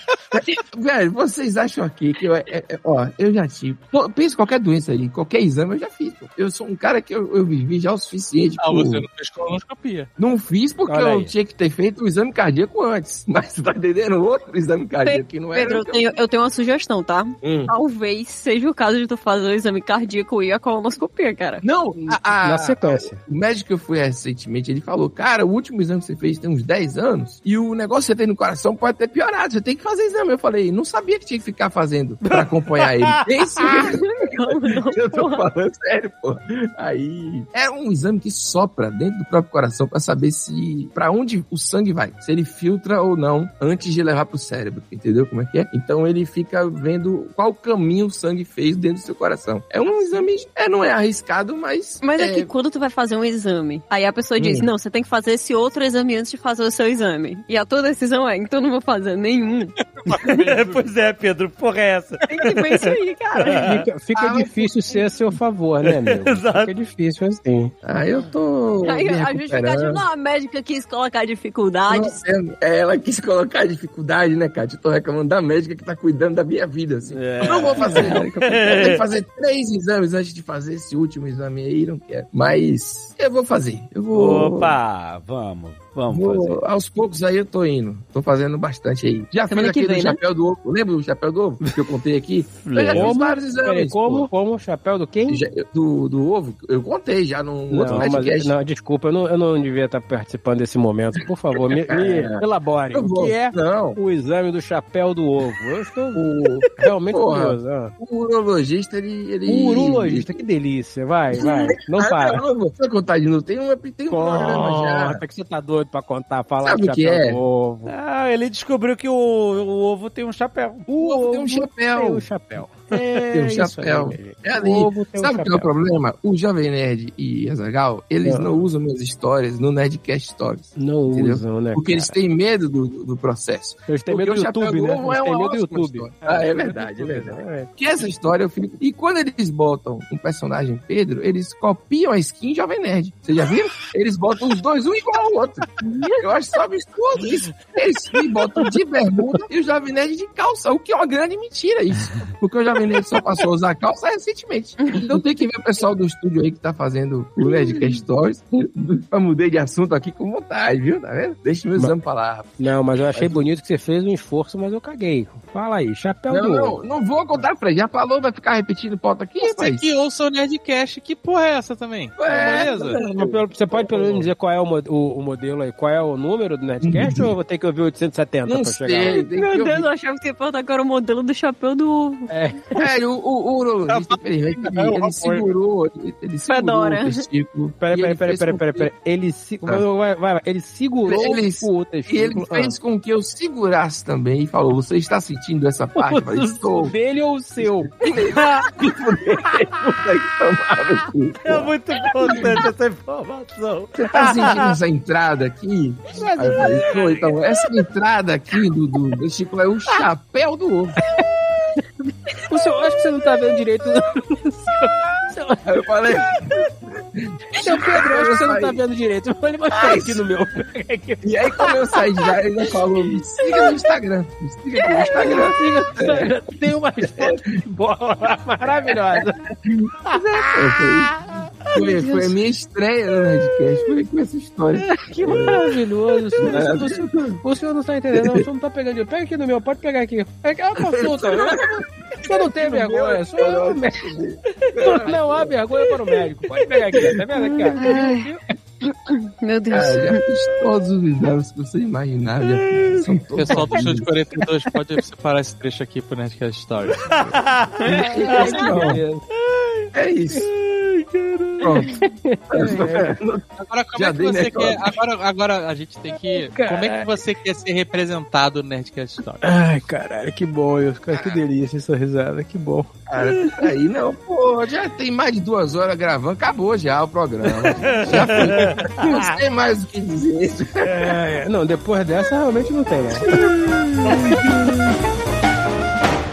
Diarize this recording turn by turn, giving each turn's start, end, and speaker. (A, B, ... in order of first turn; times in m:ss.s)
0:00.3-0:09.1 A
0:08.6-0:10.1 B
0:10.2-0:16.0 A
0:10.9-0:11.3 C
0:15.0-0:21.6 D
0:17.4-0:17.7 A
0:21.6-0:52.5 A
0:22.0-0:23.2 E
0:32.5-0:33.6 C
0:33.7-0:35.4 D
0:52.0-0:59.8 D
0:54.4-0:54.7 A
0:59.8-1:01.2 B
1:00.1-1:03.8 C
1:02.3-1:03.7 D
1:03.5-1:07.7 E
1:04.2-1:05.1 A
1:05.9-1:06.7 C
1:07.8-1:10.0 A
1:08.8-1:12.2 D
1:11.9-1:24.8 A
1:17.1-1:19.0 C
1:24.1-1:26.6 C
1:26.1-1:34.3 A
1:29.5-1:30.2 D
1:32.5-1:33.2 C
1:32.9-1:35.4 E
1:35.3-1:38.5 A
1:37.7-1:46.2 E
1:41.6-1:42.4 A
1:42.9-1:44.0 A
1:46.1-1:50.4 A
1:46.8-1:48.0 E
1:49.5-1:52.4 E
1:51.4-1:55.2 A
1:54.1-1:57.9 E
1:56.6-1:57.4 A
1:57.9-2:00.9 C
2:00.9-2:05.7 E
2:01.0-2:02.3 A
2:03.3-2:42.6 A
2:08.2-2:08.7 E
2:10.8-2:12.2 E
2:13.9-2:17.7 E
2:25.8-2:26.2 D
2:34.8-2:35.1 D
2:42.6-2:46.8 E
2:43.1-2:43.4 A
2:46.3-2:49.8 A
2:49.4-2:53.0 B
2:52.2-2:54.3 A
2:52.3-2:59.2 E
2:56.8-2:57.3 A
2:58.5-2:59.9 A
2:59.1-3:02.3 D
3:02.3-3:02.8 E
3:02.8-3:08.9 A
3:03.9-3:05.5 B
3:06.5-3:07.2 D
3:07.8-3:12.8 E
3:11.1-3:16.9 A
3:16.0-3:17.9 E
3:17.6-3:21.7 A
3:18.4-3:18.7 C
3:21.4-3:24.7 C
3:22.3-3:22.6 A
3:24.0-3:31.0 A
3:26.1-3:27.7 E
3:32.5-3:35.8 E
3:35.7-3:36.4 A
3:37.0-3:38.8 A
3:37.5-3:42.8 E
3:39.8-3:40.2 A
3:41.2-3:46.3 A
3:43.4-3:43.7 E
3:45.0-3:49.4 E
3:49.6-3:55.6 A
3:50.1-3:50.9 E
3:51.9-3:52.3 E
3:54.9-4:01.6 E
3:56.4-3:57.4 A
3:58.2-3:58.4 A
4:00.9-4:05.6 A
4:02.2-4:04.2 E
4:04.8-4:08.5 E
4:07.8-4:08.3 D
4:08.8-4:10.2 D
4:09.7-4:14.1 A
4:13.4-4:17.2 B
4:17.1-4:17.9 C
4:17.8-4:18.9 D
4:17.9-4:19.0 A
4:17.9-4:19.2 E
4:19.5-4:19.9 C
4:19.9-4:20.5 A
4:20.5-4:21.7 C
4:21.6-4:24.9 A
4:21.9-4:23.2 E
4:23.6-4:29.4 B
4:26.4-4:27.1 E
4:29.4-4:32.9 E
4:31.1-4:31.4 A
4:33.1-4:41.1 A
4:38.1-4:39.3 C
4:40.8-4:43.3 E
4:43.3-4:44.2 C
4:44.1-4:44.6 E